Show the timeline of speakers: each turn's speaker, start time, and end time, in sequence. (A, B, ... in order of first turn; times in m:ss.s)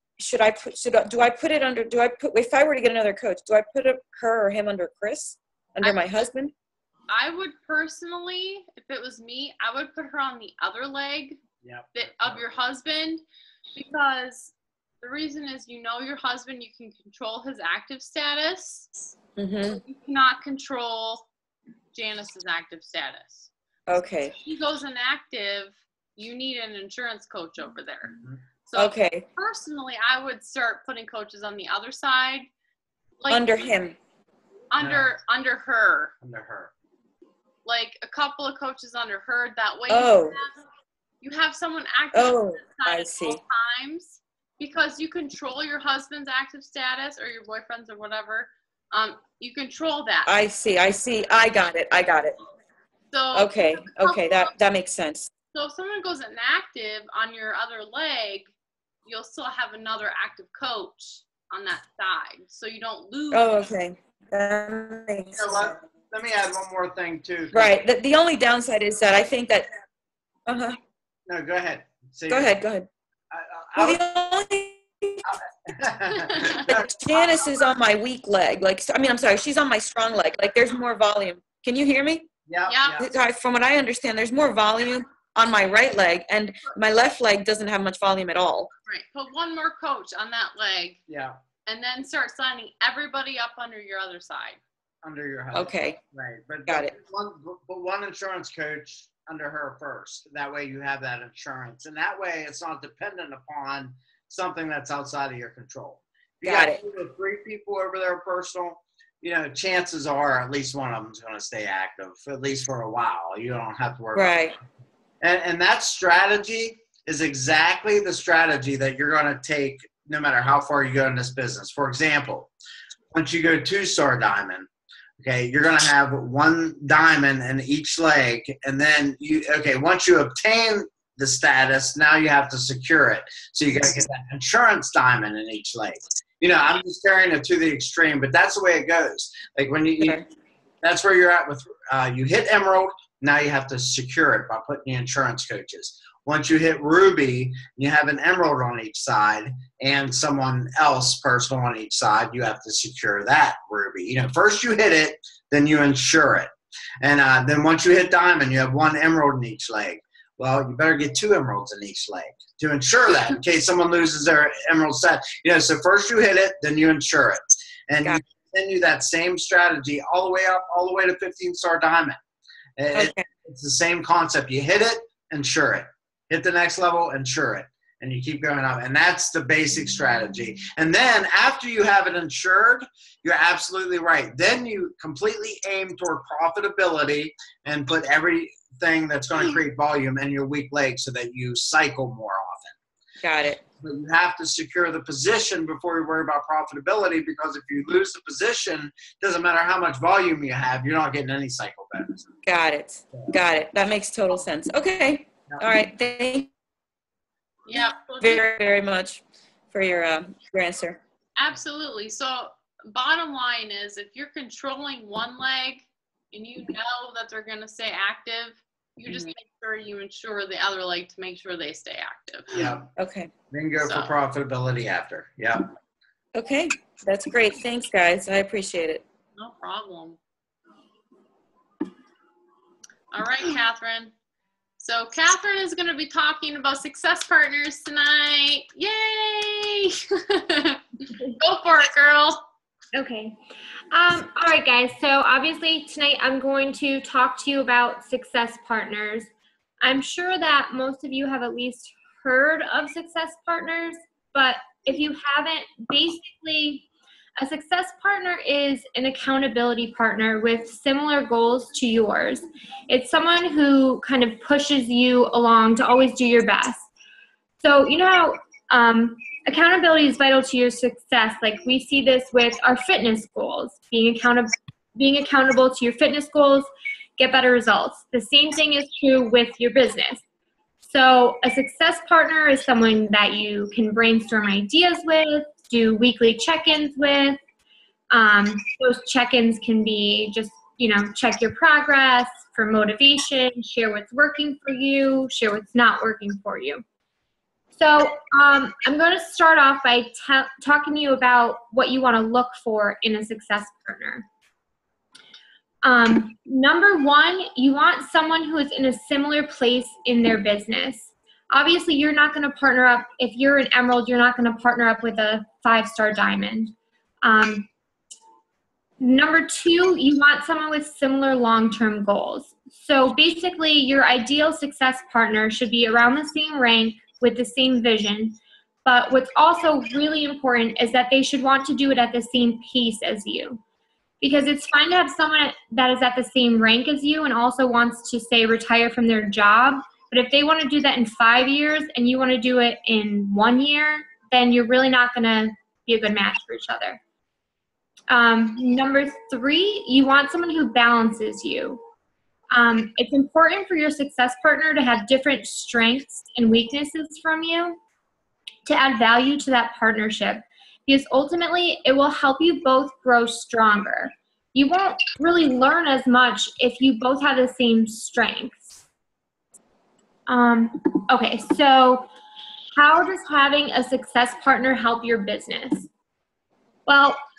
0:00.2-0:06.5 A
0:05.8-0:06.1 B
0:07.1-0:11.4 B
0:11.6-0:12.6 C
0:11.9-0:13.2 B
0:13.7-0:18.9 B
0:19.4-0:19.8 A
0:19.6-0:21.2 B
0:21.9-0:23.5 B
0:23.9-0:24.3 A
0:24.3-0:32.5 B
0:28.8-0:29.2 A
0:33.2-0:33.7 B
0:33.3-0:34.0 A
0:34.7-0:36.1 B
0:34.8-0:35.1 C
0:36.2-0:36.7 C
0:37.6-0:40.6 B
0:39.9-0:40.4 A
0:41.2-0:50.3 B
0:42.1-0:43.4 A
0:50.2-0:52.3 A
0:53.1-0:54.5 B
0:53.3-0:55.3 A
0:55.5-0:58.5 B
0:59.0-1:03.7 B
1:03.3-1:05.8 A
1:05.3-1:07.7 C
1:07.5-1:09.7 A
1:10.5-1:10.8 A
1:11.3-1:12.6 C
1:12.3-1:12.9 A
1:13.3-1:14.0 C
1:13.8-1:15.2 A
1:15.2-1:17.0 C
1:16.2-1:16.6 B
1:16.5-1:22.3 A
1:22.5-1:23.1 C
1:22.7-1:23.0 B
1:23.0-1:28.7 A
1:28.9-1:31.0 B
1:31.1-1:31.4 C
1:31.6-1:34.6 B
1:35.0-1:54.5 C
1:35.5-1:36.0 A
1:36.7-1:36.9 A
1:46.4-1:46.8 A
1:54.1-1:54.6 A
1:55.2-2:02.5 C
2:03.1-2:04.7 C
2:05.2-2:20.2 C
2:20.0-2:20.2 A
2:20.8-2:52.2 C
2:52.8-3:12.7 C
2:52.9-2:53.2 A
3:13.2-3:13.6 A
3:13.8-3:22.3 C
3:22.4-3:26.5 A
3:27.6-3:28.5 B
3:27.7-3:31.0 A
3:31.4-3:42.6 B
3:42.5-3:42.9 C
3:43.0-3:43.3 A
3:43.5-3:45.7 C
3:43.8-3:44.1 B
3:46.3-3:49.0 A
3:49.4-3:50.2 B
3:53.1-3:54.1 B
3:54.8-4:02.4 B
4:02.9-4:03.4 D
4:03.9-4:09.3 D
4:09.8-4:26.9 D
4:27.6-4:40.2 D
4:40.8-4:47.4 D
4:48.1-4:56.8 D
4:57.8-5:04.2 D
5:05.8-5:17.7 D
5:19.0-5:33.6 D
5:34.2-5:47.0 D
5:48.1-5:51.8 D
5:52.5-5:57.8 D
5:58.6-6:08.8 D
6:10.3-6:12.1 D
6:12.8-6:15.9 D
6:16.9-6:17.2 D